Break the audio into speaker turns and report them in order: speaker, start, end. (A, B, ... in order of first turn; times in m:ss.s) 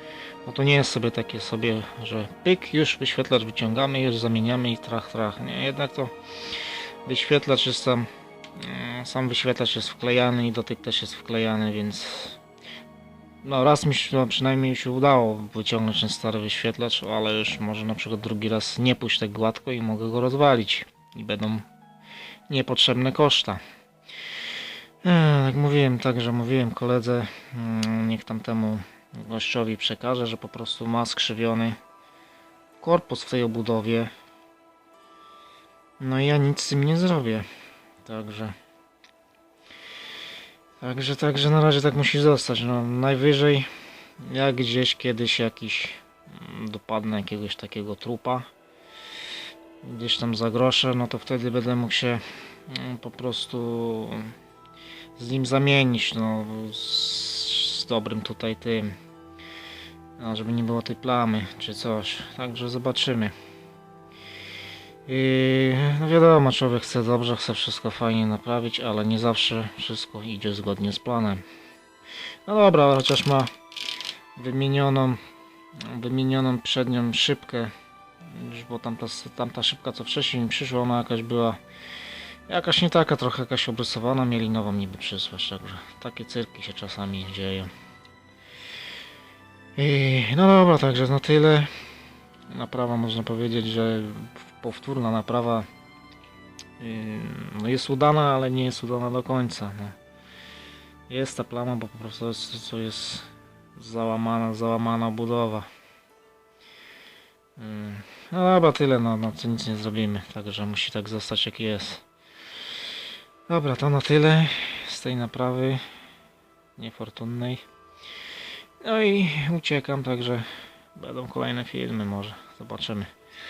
0:00.4-0:12.4 A
0:13.4-0:21.6 A
0:22.5-0:23.6 A
0:25.0-0:31.8 A
0:32.8-0:34.1 A
0:36.0-0:37.5 A
0:38.0-0:38.6 A
0:40.8-0:48.5 A
0:49.8-0:54.3 A
0:55.2-0:59.0 A
1:00.2-1:03.3 A
1:05.0-1:11.4 A
1:12.4-1:13.5 A
1:14.4-1:15.2 A
1:15.8-1:21.6 A
1:22.5-1:27.7 A
1:29.8-1:31.7 A
1:32.5-1:35.7 A
1:36.8-1:40.0 A
1:41.1-1:45.7 A
1:47.6-1:52.0 A
1:53.5-1:55.8 A
1:56.8-1:57.6 A
1:58.8-2:03.1 A